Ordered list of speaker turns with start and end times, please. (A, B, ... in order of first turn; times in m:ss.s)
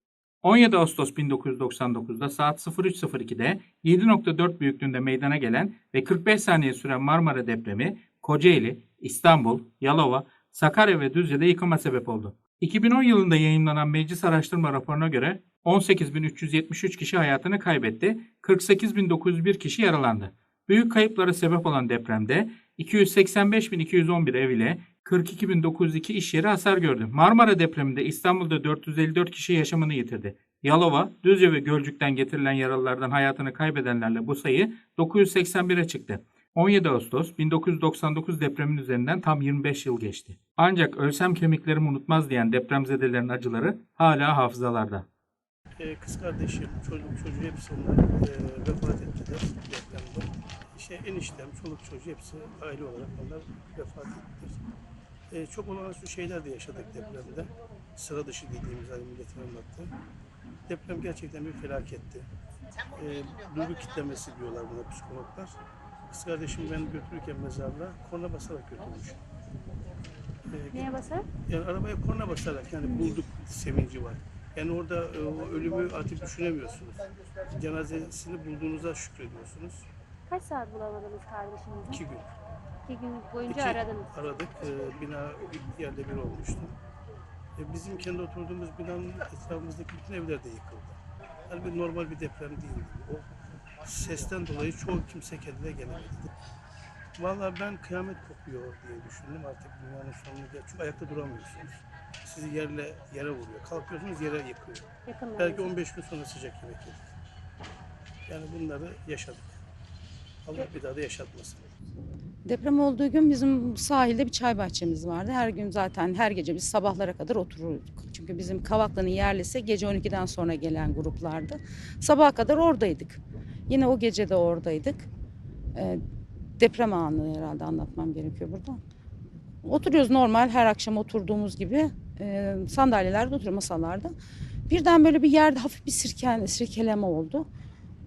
0:00.4-0:45.0 A
0:45.8-0:54.6 B
0:55.3-0:59.9 B
1:00.7-1:02.3 B
1:02.9-1:05.6 B
1:06.1-1:09.2 B
1:10.5-1:11.0 B
1:10.7-1:11.2 C
1:11.5-1:19.9 B
1:12.8-1:13.2 C
1:20.3-1:22.0 C
1:21.9-1:22.3 B
1:22.9-1:24.1 C
1:23.4-1:26.7 B
1:27.6-1:31.0 B
1:31.5-1:33.2 B
1:33.8-1:36.3 B
1:37.2-1:47.0 B
1:45.1-1:45.7 C
1:48.3-1:49.6 B
1:50.4-1:51.7 B
1:52.4-2:05.1 D
2:05.7-2:06.0 D
2:06.6-2:08.8 D
2:09.6-2:14.1 D
2:14.7-2:17.4 D